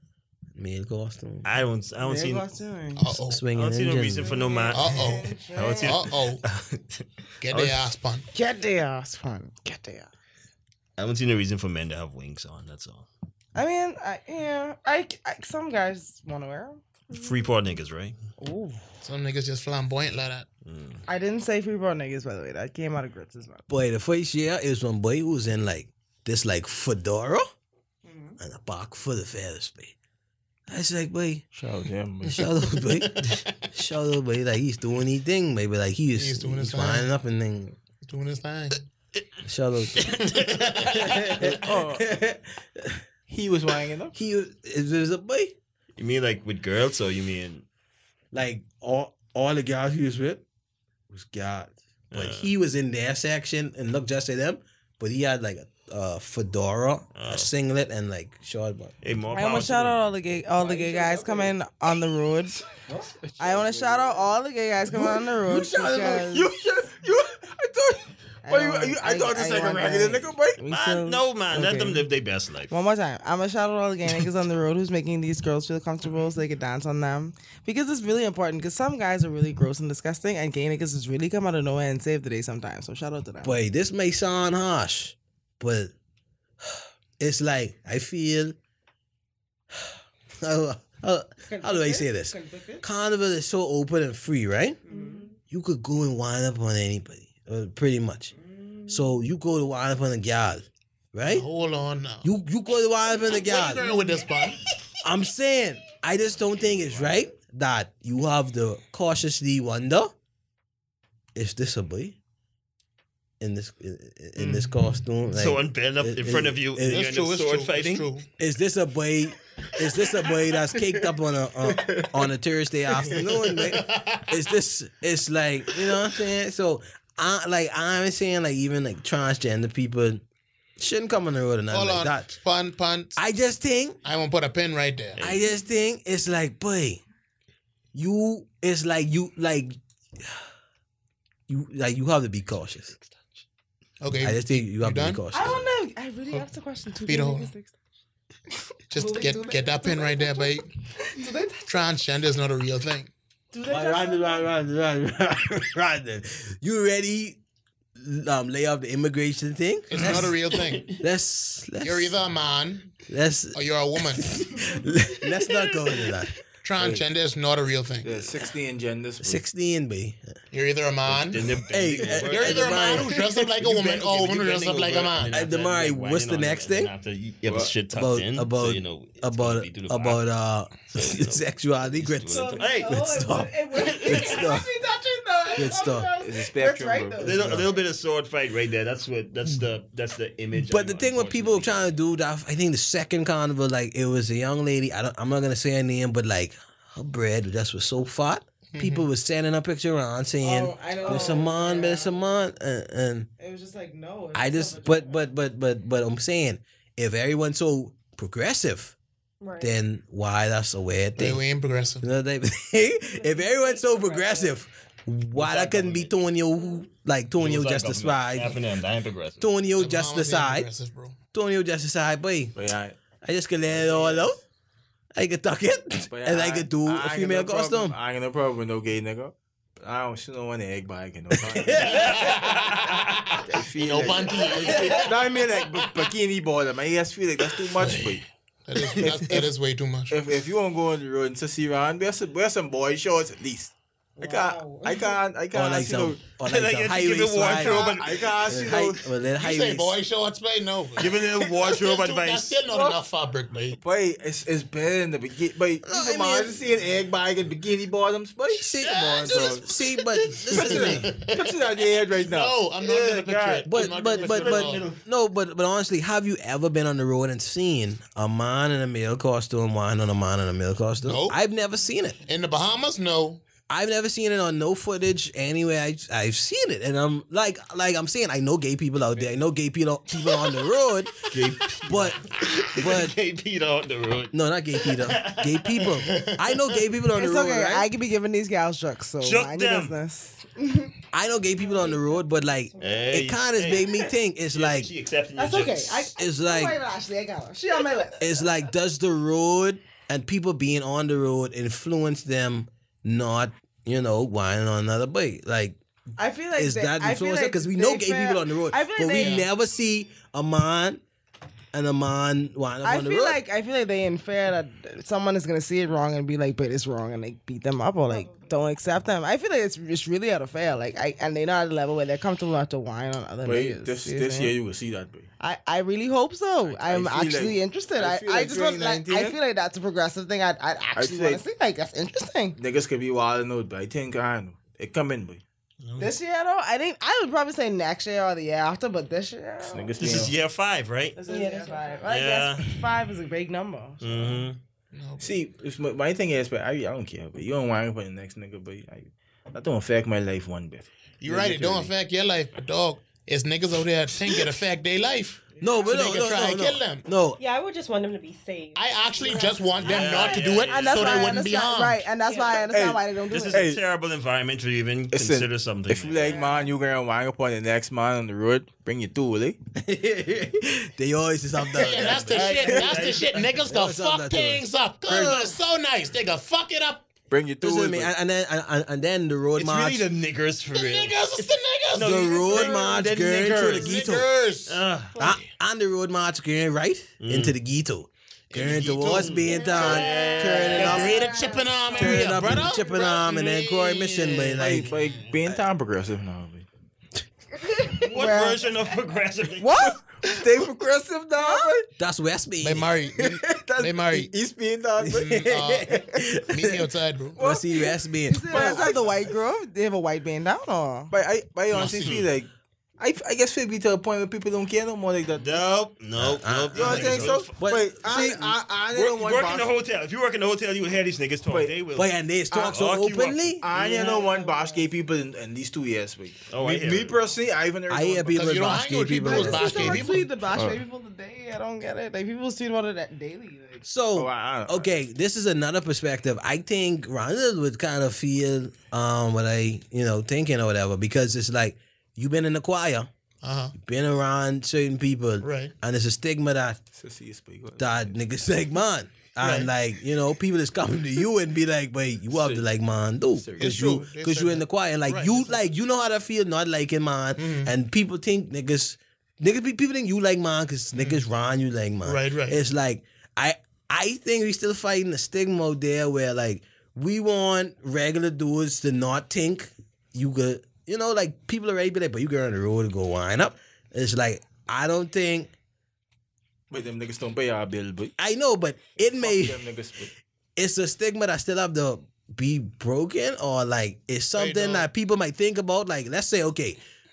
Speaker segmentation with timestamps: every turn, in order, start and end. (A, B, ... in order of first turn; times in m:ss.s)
0:00.6-0:01.4 A
0:01.4-0:02.6 B
0:02.0-0:03.1 C
0:03.0-0:03.4 D
0:03.1-0:04.4 A
0:03.5-0:07.7 B
0:04.2-0:06.0 C
0:04.7-0:06.4 D
0:07.4-0:08.3 D
0:08.3-0:10.1 C
0:11.0-0:13.1 B
0:13.6-0:16.8 C
0:17.1-0:17.4 E
0:17.1-0:18.2 B
0:18.4-0:18.8 C
0:19.0-0:20.5 D
0:20.7-0:21.0 B
0:21.1-0:23.7 C
0:23.7-0:27.5 A
0:28.1-0:28.4 C
0:28.4-0:29.9 A
0:30.7-0:31.4 A
0:31.5-0:32.5 F
0:32.2-0:37.7 A
0:32.4-0:33.5 D
0:36.1-0:37.1 D
0:38.1-0:38.9 D
0:39.4-0:40.2 A
0:40.0-0:41.4 D
0:40.2-0:40.6 B
0:40.8-0:43.0 A
0:41.4-0:42.1 F
0:43.3-0:44.1 F
0:44.1-0:45.6 A
0:46.0-0:47.6 B
0:48.3-0:50.4 A
0:51.1-0:59.0 A
0:52.1-0:52.5 B
0:57.1-0:57.5 B
0:59.0-1:00.1 B
0:59.3-1:02.6 C
1:00.6-1:01.5 F
1:02.9-1:04.3 F
1:03.4-1:06.5 C
1:04.9-1:06.2 A
1:06.2-1:10.6 F
1:08.4-1:12.0 C
1:10.7-1:12.8 B
1:12.7-1:23.6 C
1:23.4-1:25.9 A
1:26.6-1:28.6 A
1:29.7-1:34.8 A
1:31.5-1:32.8 C
1:34.9-1:35.3 C
1:34.9-1:35.3 E
1:35.5-1:38.3 A
1:38.4-1:39.1 C
1:38.9-1:41.4 A
1:41.2-1:42.3 D
1:42.2-1:43.9 A
1:43.3-1:44.6 D
1:45.0-1:50.1 A
1:51.4-1:52.2 A
1:53.4-1:57.1 A
1:54.4-1:55.0 D
1:55.3-1:58.1 B
1:56.9-1:58.3 D
1:58.4-2:10.2 A
2:01.7-2:02.2 F
2:03.0-2:03.4 F
2:03.2-2:04.3 D
2:10.8-2:12.3 A
2:11.7-2:13.2 D
2:13.2-2:14.0 A
2:14.0-2:15.2 D
2:15.2-2:17.0 A
2:17.9-2:20.3 A
2:21.5-2:23.0 A
2:24.0-2:25.2 D
2:24.2-2:25.7 A
2:25.3-2:27.7 C
2:27.0-2:27.5 D
2:28.9-2:30.7 D
2:28.9-2:31.8 C
2:31.7-2:33.1 D
2:33.5-2:34.5 C
2:33.6-2:37.4 A
2:38.0-2:40.4 A
2:39.9-2:41.0 D
2:40.0-2:40.2 B
2:41.0-2:42.1 A
2:41.8-2:42.9 D
2:43.1-2:46.4 A
2:43.5-2:44.3 D
2:46.6-2:48.4 D
2:46.8-2:47.0 F
2:48.0-2:49.4 F
2:49.2-2:50.3 A
2:50.5-2:51.5 D
2:51.1-3:00.2 B
2:51.7-2:53.3 A
2:52.1-2:55.3 D
2:55.3-2:56.9 A
2:57.4-2:57.7 F
2:57.9-3:04.7 A
3:00.9-3:03.1 B
3:02.3-3:07.6 C
3:03.7-3:04.6 B
3:05.6-3:06.1 A
3:06.2-3:07.6 F
3:07.2-3:11.8 B
3:10.6-3:23.3 A
3:18.7-3:19.1 D
3:20.4-3:22.4 C
3:21.0-3:21.4 E
3:23.4-3:25.2 C
3:24.3-3:29.0 A
3:29.4-3:29.8 E
3:29.6-3:31.4 A
3:31.2-3:32.1 D
3:32.0-3:38.6 A
3:33.2-3:34.5 E
3:35.3-3:36.1 B
3:37.4-3:39.4 B
3:39.4-3:40.7 A
3:39.8-3:41.2 D
3:41.3-3:42.5 A
3:42.6-3:43.0 F
3:43.2-3:44.4 A
3:43.7-3:44.4 F
3:45.1-3:48.0 A
3:46.1-3:52.2 F
3:51.4-3:52.1 A
3:51.8-3:53.2 B
3:51.9-3:56.0 D
3:53.4-3:58.2 F
3:54.6-3:55.0 A
3:57.5-4:00.4 D
3:59.0-3:59.5 F
4:00.1-4:06.2 F
4:04.2-4:05.2 C
4:05.5-4:07.9 A
4:06.4-4:08.4 B
4:07.5-4:09.1 F
4:08.4-4:10.0 A
4:09.4-4:13.8 D
4:11.0-4:12.6 B
4:12.7-4:13.0 F
4:13.8-4:19.6 F
4:15.8-4:16.6 A
4:18.5-4:21.1 A
4:18.7-4:24.9 D
4:20.5-4:23.3 F
4:23.3-4:25.0 B
4:23.6-4:32.2 A
4:31.0-4:31.4 D
4:32.3-4:33.4 D
4:33.7-4:41.3 A
4:41.3-4:44.3 B
4:41.8-4:42.2 A
4:42.7-4:43.2 A
4:44.3-4:47.9 A
4:44.9-4:45.9 B
4:46.0-4:46.5 D
4:47.1-4:50.9 C
4:49.2-4:49.9 B
4:51.1-4:54.9 A
4:51.7-4:52.0 E
4:52.8-4:53.1 E
4:52.8-4:56.1 B
4:55.4-4:58.3 C
4:56.2-4:56.8 A
4:58.2-5:05.8 A
5:06.2-5:09.4 C
5:06.6-5:11.0 A
5:09.1-5:09.4 D
5:11.7-5:13.4 A
5:12.8-5:24.6 C
5:18.1-5:18.5 E
5:23.4-5:25.3 F
5:25.4-5:32.6 C
5:26.7-5:29.4 F
5:31.0-5:31.4 F
5:32.6-5:35.4 F
5:36.0-5:40.3 C
5:39.6-5:40.3 F
5:40.0-5:41.2 B
5:41.2-5:44.5 C
5:41.2-5:42.1 E
5:42.1-5:42.7 B
5:44.0-5:44.6 B
5:44.9-5:45.4 D
5:45.2-5:51.9 F
5:51.2-5:57.0 D
5:55.6-5:55.9 C
5:55.6-5:57.4 A
5:57.4-6:00.3 E
5:58.7-6:02.1 D
5:59.3-6:03.7 C
5:59.8-6:01.4 B
6:02.2-6:02.7 E
6:02.7-6:03.8 F
6:03.3-6:06.4 B
6:05.1-6:09.6 F
6:06.3-6:06.7 E
6:06.3-6:06.7 C
6:09.7-6:12.7 A
6:11.7-6:17.1 D
6:11.9-6:13.6 B
6:12.4-6:13.1 F
6:13.7-6:15.6 A
6:17.3-6:18.1 F
6:17.6-6:20.1 A
6:19.6-6:24.0 B
6:20.7-6:25.4 D
6:22.0-6:24.3 A
6:24.7-6:25.2 B
6:25.2-6:31.2 A
6:27.2-6:27.6 B
6:28.5-6:30.1 D
6:28.6-6:31.1 B
6:29.7-6:32.6 C
6:29.9-6:30.3 E
6:30.7-6:35.2 D
6:31.9-6:34.9 A
6:34.6-6:36.7 F
6:37.8-6:38.6 C
6:37.9-6:40.0 B
6:39.6-6:40.0 C
6:39.8-6:41.9 F
6:41.4-6:41.7 C
6:42.0-6:42.9 A
6:42.6-6:44.3 D
6:43.2-6:46.0 F
6:45.0-6:48.9 A
6:45.1-6:47.4 D
6:47.4-6:47.6 F
6:48.3-6:51.1 C
6:48.5-6:49.1 F
6:51.1-6:55.6 F
6:51.7-6:52.3 D
6:55.4-6:57.6 B
6:56.2-6:58.6 A
6:56.7-6:59.7 F
6:58.9-7:03.6 B
7:01.4-7:01.8 F
7:02.0-7:03.6 A
7:03.6-7:08.8 F
7:03.7-7:04.9 C
7:06.5-7:07.2 B
7:07.9-7:10.1 A
7:08.3-7:10.3 D
7:09.2-7:13.8 C
7:10.5-7:10.8 F
7:13.8-7:23.1 A
7:14.2-7:14.9 F
7:23.4-7:23.7 D
7:23.8-7:26.8 A
7:25.4-7:25.7 D
7:26.9-7:28.1 F
7:27.8-7:55.5 A
7:29.4-7:29.7 D
7:32.3-7:32.6 F
7:33.4-7:34.0 F
7:33.6-7:35.6 D
7:37.4-7:37.7 D
7:41.0-7:41.2 D
7:42.0-7:42.6 D
7:56.7-7:58.1 F
7:58.2-7:59.6 A
7:59.0-8:00.1 F
8:00.6-8:06.8 A
8:04.4-8:04.9 D